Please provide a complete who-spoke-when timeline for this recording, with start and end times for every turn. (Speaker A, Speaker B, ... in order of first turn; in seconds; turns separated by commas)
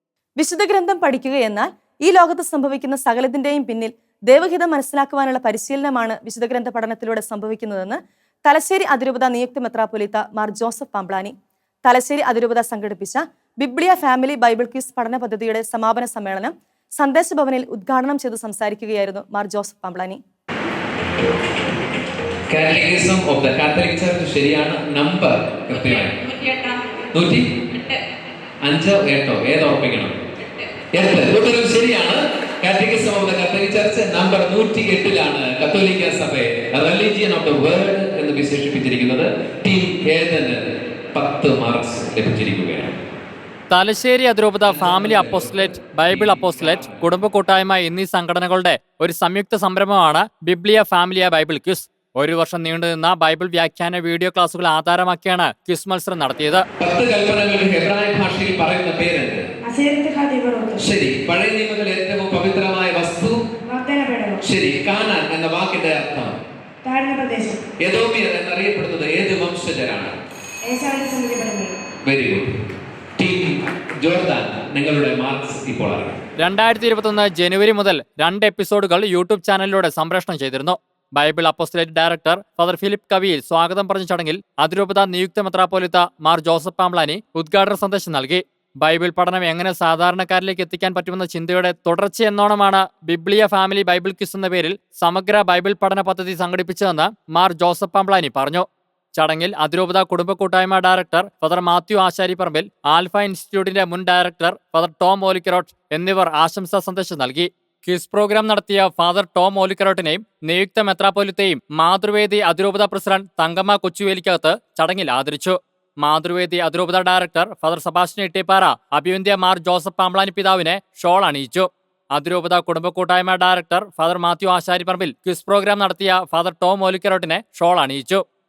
Speaker A: 0.4-20.2, Speaker B: 22.5-26.4, Speaker B: 27.1-27.5, Speaker B: 28.6-30.2, Speaker B: 30.9-40.6, Speaker B: 41.1-42.9, Speaker C: 43.7-56.6, Speaker B: 44.8-47.0, Speaker B: 56.8-59.5, Speaker D: 59.6-60.8, Speaker B: 60.8-63.4, Speaker D: 63.7-64.4, Speaker B: 64.4-66.3, Speaker D: 66.8-67.6, Speaker B: 67.8-70.1, Speaker D: 70.7-71.7, Speaker B: 72.0-72.5, Speaker B: 73.2-76.2, Speaker C: 76.4-128.2